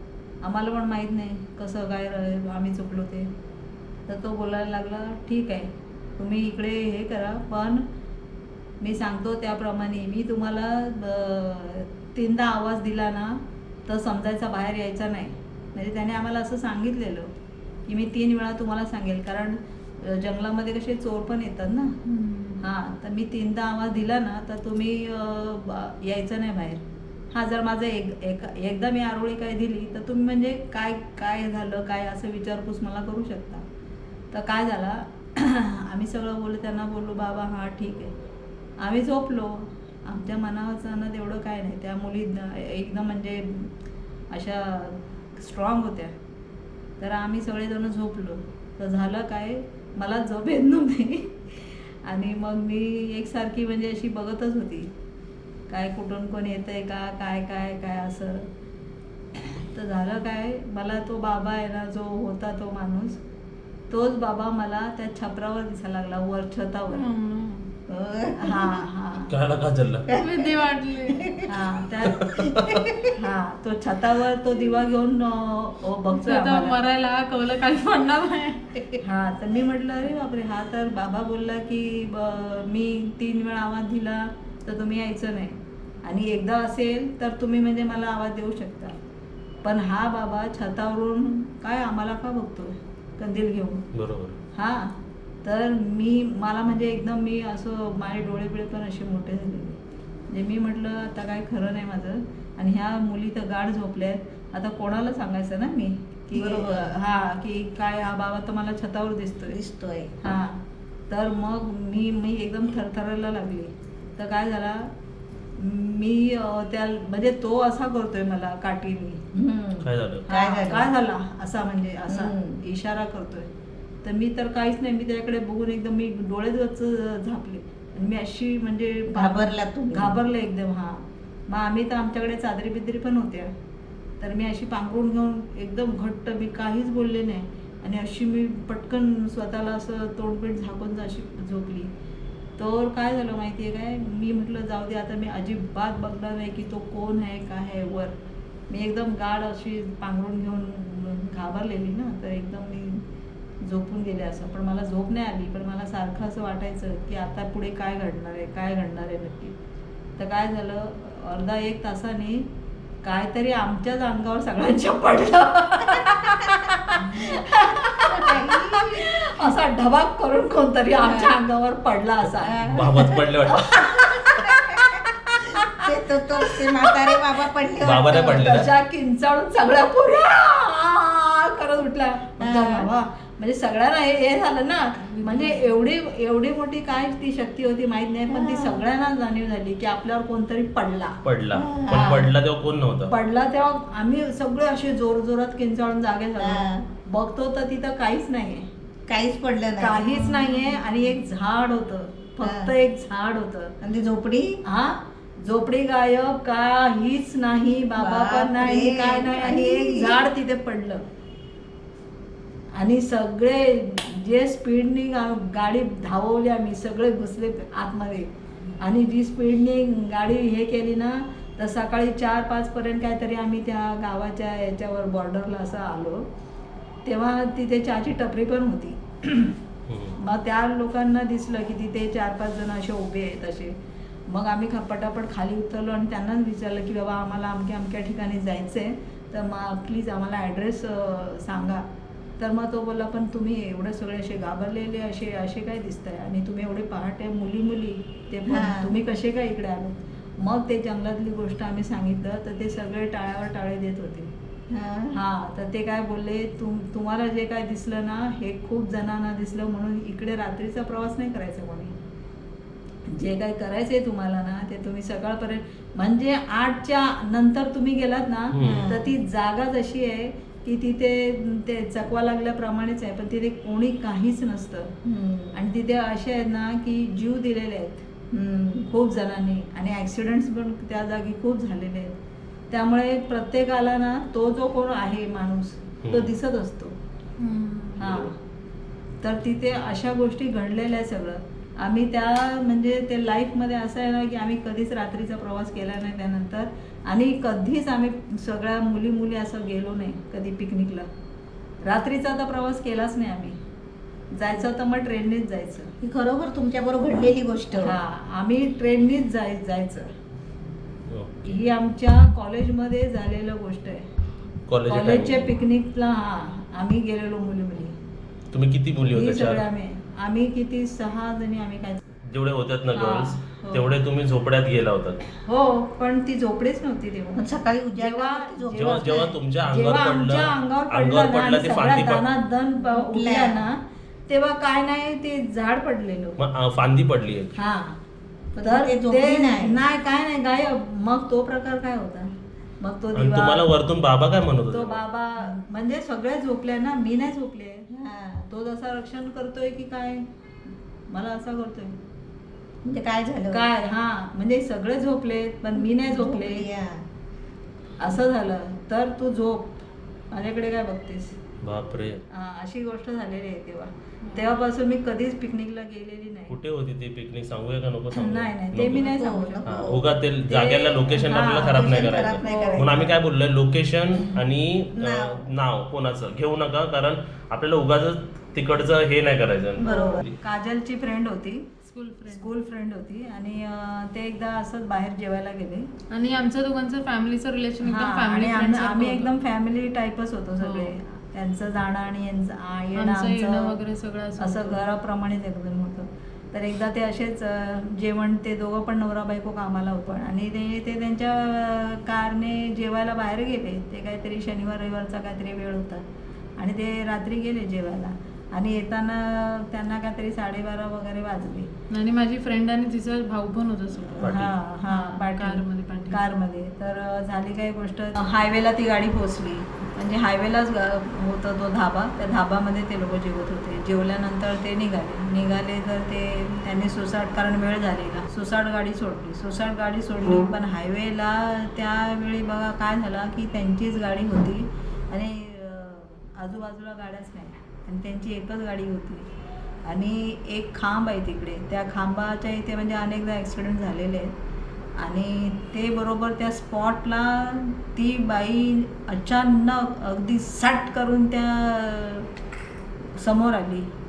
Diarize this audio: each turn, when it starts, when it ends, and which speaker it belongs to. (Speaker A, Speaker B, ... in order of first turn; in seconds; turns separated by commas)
Speaker A: 0.4-3.3, Speaker A: 4.1-7.9, Speaker A: 8.8-17.3, Speaker A: 17.9-22.0, Speaker B: 22.1-22.6, Speaker A: 22.6-33.7, Speaker A: 34.3-38.1, Speaker A: 38.8-43.7, Speaker A: 44.3-46.2, Speaker A: 47.0-54.9, Speaker A: 55.7-58.5, Speaker A: 59.4-63.2, Speaker A: 63.9-67.0, Speaker C: 66.9-67.7, Speaker B: 67.9-68.8, Speaker A: 68.4-69.3, Speaker D: 69.3-70.1, Speaker B: 70.1-71.6, Speaker C: 70.2-71.3, Speaker A: 71.5-72.4, Speaker D: 72.1-72.9, Speaker B: 72.4-73.1, Speaker A: 73.1-76.8, Speaker C: 76.2-78.7, Speaker A: 79.0-89.0, Speaker A: 89.6-93.8, Speaker D: 93.9-94.4, Speaker A: 94.5-109.6, Speaker B: 106.3-106.9, Speaker B: 109.5-110.1, Speaker A: 110.2-114.9, Speaker A: 115.6-119.2, Speaker B: 119.3-120.9, Speaker D: 119.8-120.3, Speaker A: 120.3-123.5, Speaker B: 122.1-122.6, Speaker A: 124.0-133.5, Speaker B: 129.1-130.2, Speaker A: 134.2-141.9, Speaker A: 142.6-148.1, Speaker A: 148.7-153.0, Speaker A: 153.6-159.6, Speaker A: 160.2-162.5, Speaker A: 163.0-172.7, Speaker B: 166.4-167.4, Speaker B: 168.0-169.2, Speaker B: 171.0-171.3, Speaker B: 172.4-173.2, Speaker D: 172.7-173.9, Speaker A: 173.5-177.2, Speaker B: 174.0-178.4, Speaker A: 177.8-191.2, Speaker D: 177.8-178.7, Speaker B: 182.4-182.9, Speaker B: 185.2-185.6, Speaker B: 188.3-188.8, Speaker D: 191.2-193.1, Speaker B: 191.5-192.3, Speaker A: 193.1-198.7, Speaker B: 196.4-196.8, Speaker B: 199.1-200.8, Speaker A: 199.8-203.7, Speaker B: 202.4-202.7, Speaker B: 203.8-204.6, Speaker A: 204.7-211.0, Speaker B: 208.0-210.2, Speaker A: 212.8-218.3, Speaker A: 218.8-226.3, Speaker A: 227.1-229.6, Speaker D: 229.9-230.2, Speaker A: 230.2-233.8, Speaker A: 234.3-241.9, Speaker A: 242.4-254.3, Speaker B: 248.5-248.9, Speaker B: 254.7-255.2, Speaker A: 255.1-261.9, Speaker A: 263.1-275.0, Speaker D: 268.5-268.9, Speaker B: 268.6-269.1, Speaker B: 275.1-275.6, Speaker A: 275.5-278.1, Speaker B: 278.3-278.9, Speaker A: 278.9-282.2, Speaker A: 282.7-286.9, Speaker D: 286.0-286.3, Speaker C: 287.4-288.1, Speaker A: 288.0-288.4, Speaker D: 288.0-288.3, Speaker A: 289.2-301.1, Speaker A: 301.8-303.6, Speaker A: 304.3-305.9, Speaker B: 306.0-308.0, Speaker A: 307.8-310.1, Speaker D: 311.1-311.6, Speaker A: 311.5-314.1, Speaker D: 314.7-315.5, Speaker A: 314.9-318.0, Speaker D: 318.5-319.6, Speaker A: 319.1-322.0, Speaker D: 322.2-325.3, Speaker A: 322.9-323.9, Speaker A: 325.3-327.4, Speaker B: 327.4-329.3, Speaker A: 328.0-336.4, Speaker D: 328.7-332.2, Speaker B: 332.9-333.6, Speaker D: 336.4-337.5, Speaker A: 337.6-338.0, Speaker B: 338.6-339.8, Speaker A: 338.6-343.6, Speaker D: 343.1-345.0, Speaker A: 344.7-347.9, Speaker B: 347.9-348.4, Speaker A: 348.5-350.3, Speaker A: 351.1-352.0, Speaker B: 352.8-353.6, Speaker A: 353.5-356.7, Speaker B: 356.0-357.1, Speaker A: 358.0-361.4, Speaker D: 361.6-362.2, Speaker A: 362.3-366.6, Speaker D: 366.5-369.1, Speaker A: 368.1-369.7, Speaker B: 368.9-370.1, Speaker D: 369.6-380.4, Speaker A: 370.5-373.1, Speaker B: 371.7-373.0, Speaker B: 374.9-375.4, Speaker B: 379.8-380.2, Speaker A: 379.8-381.7, Speaker C: 381.8-382.5, Speaker A: 382.3-385.9, Speaker C: 386.1-389.3, Speaker A: 387.8-393.8, Speaker C: 390.6-390.9, Speaker C: 393.0-394.8, Speaker A: 394.4-406.1, Speaker A: 406.6-411.7, Speaker C: 411.9-416.2, Speaker A: 414.2-439.3, Speaker D: 414.2-414.5, Speaker A: 439.9-444.3, Speaker A: 445.0-452.3, Speaker A: 453.2-453.9